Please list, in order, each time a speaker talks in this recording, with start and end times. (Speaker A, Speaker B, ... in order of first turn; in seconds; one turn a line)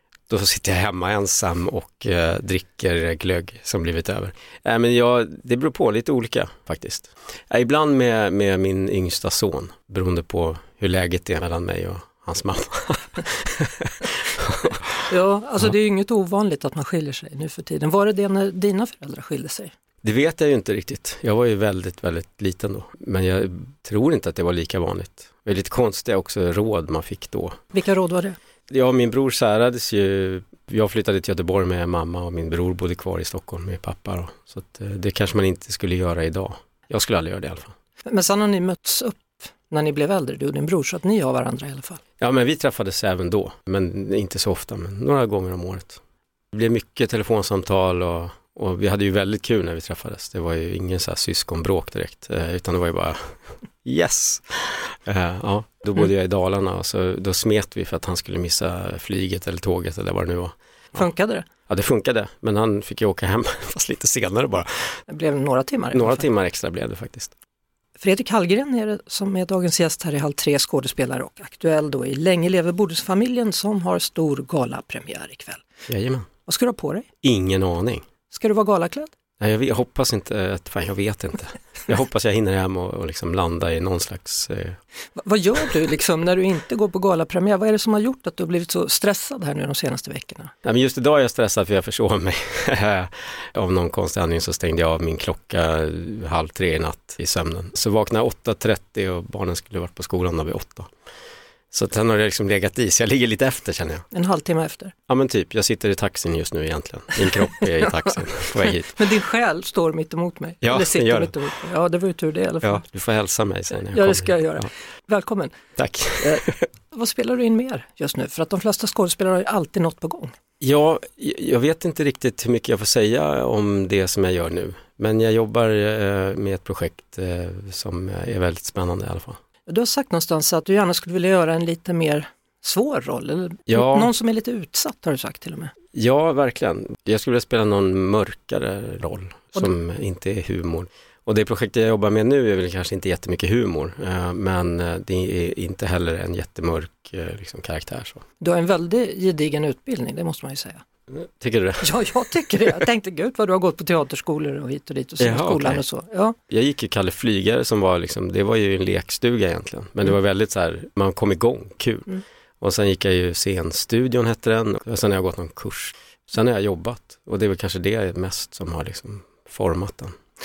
Speaker A: 0.3-14.9
Speaker B: 15.1-19.7
Speaker A: 20.0-27.6
Speaker B: 27.7-28.4
Speaker A: 28.7-37.7
Speaker B: 38.0-42.0
Speaker A: 42.2-46.0
Speaker A: 46.5-53.3
Speaker A: 53.8-61.1
Speaker B: 61.0-61.5
Speaker A: 61.7-65.0
Speaker B: 65.1-66.2
Speaker A: 65.9-67.3
Speaker B: 68.0-75.6
Speaker A: 75.9-76.3
Speaker B: 76.5-77.0
Speaker A: 77.2-78.0
Speaker B: 78.3-79.1
Speaker A: 79.4-84.8
Speaker B: 85.2-90.5
Speaker A: 90.6-100.9
Speaker A: 101.7-104.0
Speaker B: 104.1-104.9
Speaker A: 105.1-109.0
Speaker B: 108.8-112.8
Speaker A: 110.6-111.3
Speaker A: 112.6-114.7
Speaker B: 113.9-115.5
Speaker A: 115.8-116.6
Speaker B: 116.2-120.3
Speaker A: 120.6-129.4
Speaker B: 129.7-135.7
Speaker A: 133.7-134.1
Speaker A: 135.9-148.2
Speaker B: 148.4-150.8
Speaker A: 151.1-152.1
Speaker B: 151.8-156.3
Speaker A: 155.2-155.8
Speaker A: 156.5-170.1